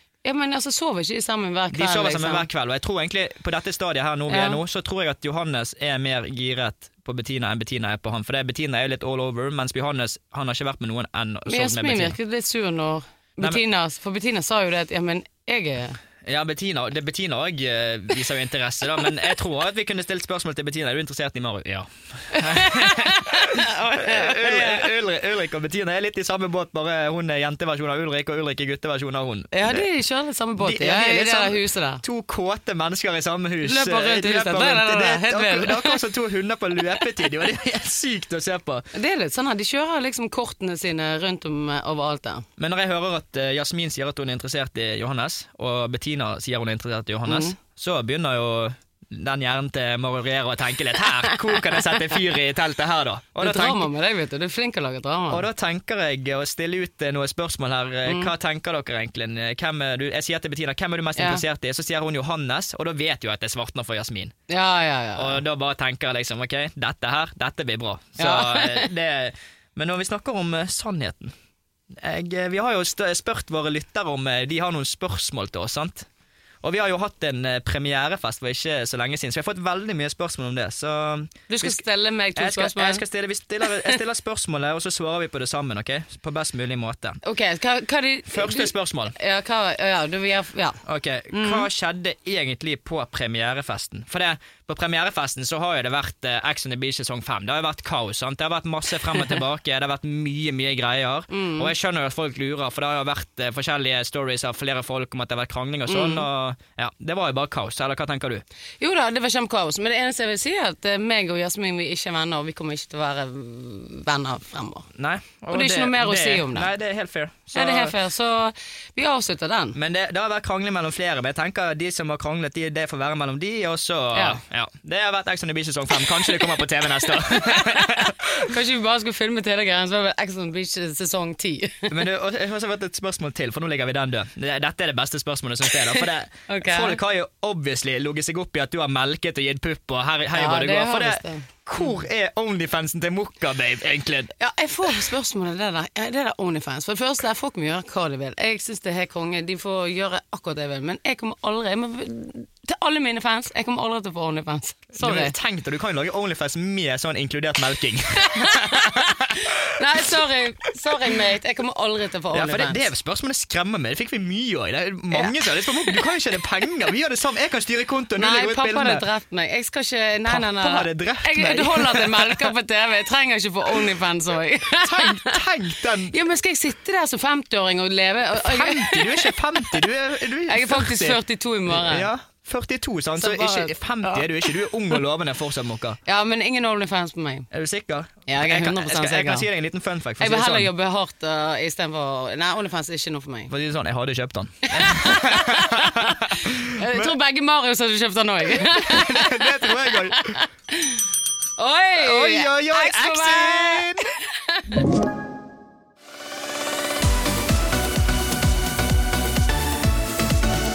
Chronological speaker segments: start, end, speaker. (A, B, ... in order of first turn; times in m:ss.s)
0:00.2-0:02.5 A
0:01.7-0:12.2 B
0:04.3-0:04.6 A
0:11.5-0:16.0 A
0:16.2-0:29.9 B
0:22.4-0:24.9 A
0:29.5-0:32.0 A
0:30.6-0:38.9 B
0:33.6-0:36.0 A
0:38.9-0:42.4 A
0:42.6-0:53.9 B
0:47.2-0:47.6 A
0:53.4-0:55.4 A
0:55.3-1:04.4 B
0:58.0-0:58.3 A
1:01.2-1:01.4 A
1:04.5-1:05.4 A
1:05.2-1:11.3 B
1:08.2-1:08.9 A
1:12.0-1:16.1 B
1:16.6-1:21.8 B
1:21.5-1:23.0 A
1:22.4-1:27.2 B
1:27.2-1:30.8 A
1:28.3-1:29.1 B
1:30.9-1:48.4 B
1:31.3-1:31.7 A
1:41.3-1:41.7 A
1:45.9-1:46.2 A
1:48.8-1:54.9 A
1:55.0-1:58.0 B
1:55.5-1:56.7 A
1:57.5-1:59.8 A
1:59.7-2:08.2 B
2:04.1-2:04.4 A
2:07.2-2:12.0 A
2:11.9-2:24.3 B
2:16.5-2:17.0 A
2:20.3-2:22.0 A
2:24.4-2:35.3 A
2:35.0-2:39.5 B
2:38.3-2:42.9 A
2:42.3-2:49.0 B
2:48.2-2:55.4 A
2:50.3-2:52.5 B
2:54.8-2:56.1 B
2:56.1-2:59.9 A
2:58.4-3:06.0 B
3:00.5-3:02.1 A
3:03.2-3:05.0 A
3:06.0-3:07.5 A
3:07.5-3:10.7 B
3:08.3-3:09.4 A
3:10.2-3:13.5 A
3:13.5-3:17.1 B
3:14.7-3:21.0 A
3:18.6-3:20.4 B
3:21.6-3:24.7 A
3:22.0-3:24.1 B